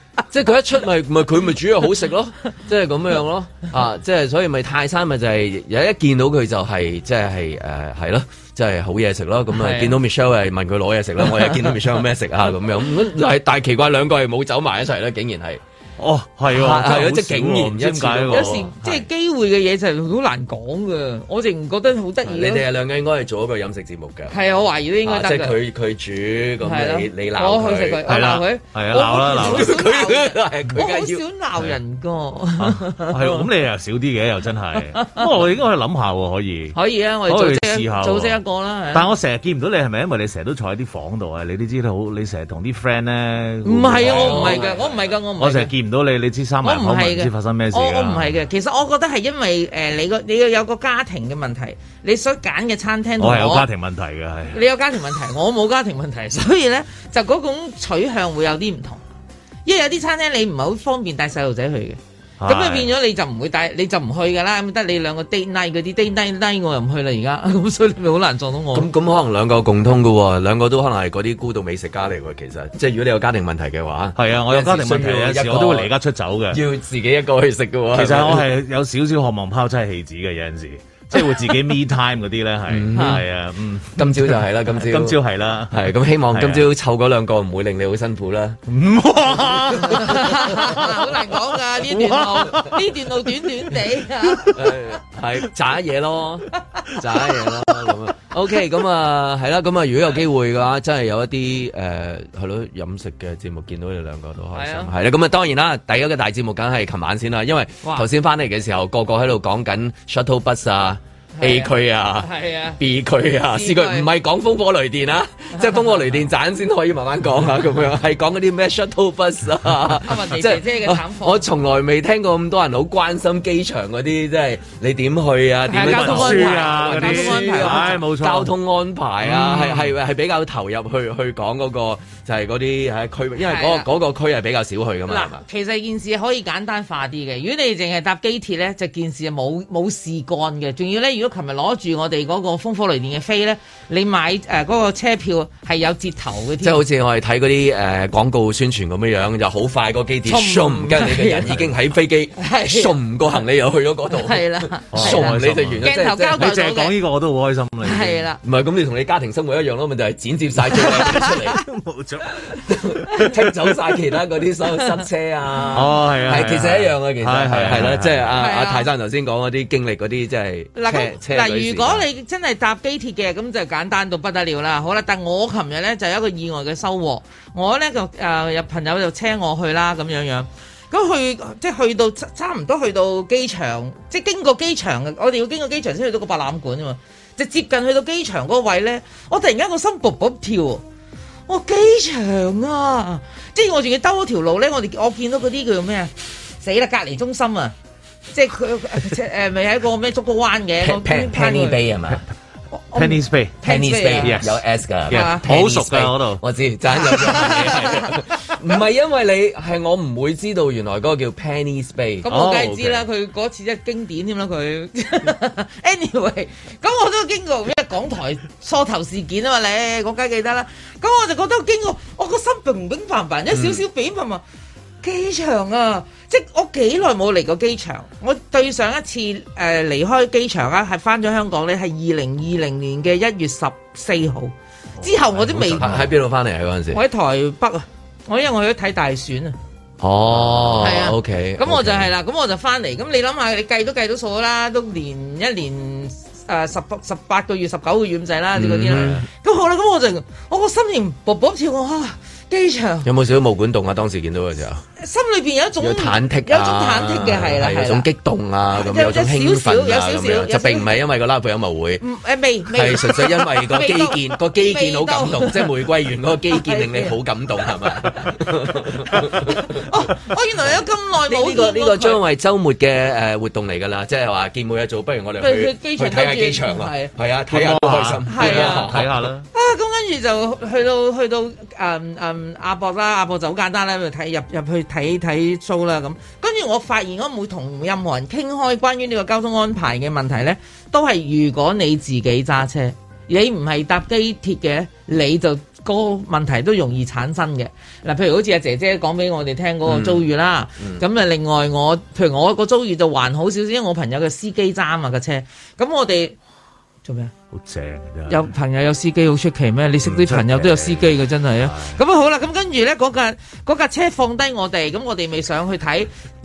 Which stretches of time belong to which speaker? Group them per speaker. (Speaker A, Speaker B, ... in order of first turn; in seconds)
Speaker A: 0.3-15.6, 16.5-18.7, 22.3-24.4, 25.0-28.1, 29.2-31.2, 44.0-45.1, 68.7-75.9, 76.5-78.5, 82.7-83.2, 84.0-88.6, 94.5-135.4, 146.6-156.5, 158.4-161.6, 162.4-172.1, 200.8-202.2, 203.6-212.3, 223.5-223.8, 235.5-237.0, 240.0-242.1, 248.6-249.2, 253.1-254.8, 255.8-262.0, 262.7-269.8, 271.3-279.2, 299.9-300.2
Speaker B: 9.5-10.0, 18.3-22.7, 24.3-25.6, 26.6-33.5, 34.9-35.3, 36.8-39.1, 43.6-45.7, 46.6-53.7, 54.5-59.0, 59.7-68.9, 89.8-94.5, 104.5-104.9, 111.4-112.8, 113.5-114.1, 120.0-121.4, 125.7-128.0, 129.3-129.8, 133.4-133.9, 135.1-146.8, 150.3-151.5, 152.4-152.9, 154.2-156.9, 157.8-158.4, 168.4-168.9, 170.8-190.8, 191.5-197.7, 198.3-201.8, 202.7-204.4, 205.1-205.4, 207.1-208.0, 212.2-224.4, 225.0-236.0, 236.9-239.6, 240.8-253.1, 255.0-258.1, 258.8-260.9, 262.0-265.7, 266.6-267.2, 269.1-272.2, 275.4-277.1, 278.3-279.0, 279.5-306.4, 307.1-307.3, 308.3-316.1
Speaker C: 16.0-18.7, 28.1-29.8, 32.6-38.4, 38.9-44.7, 45.4-48.4, 53.2-54.6, 62.4-62.9, 74.2-76.6, 77.9-86.7, 88.7-90.9, 91.9-92.8, 125.7-128.5, 154.9-158.2, 161.5-162.4, 165.7-168.4, 202.9-203.6, 204.2-206.4, 212.3-213.1, 235.3-236.1, 248.9-249.2, 277.5-279.5, 307.5-308.5, 310.0-312.0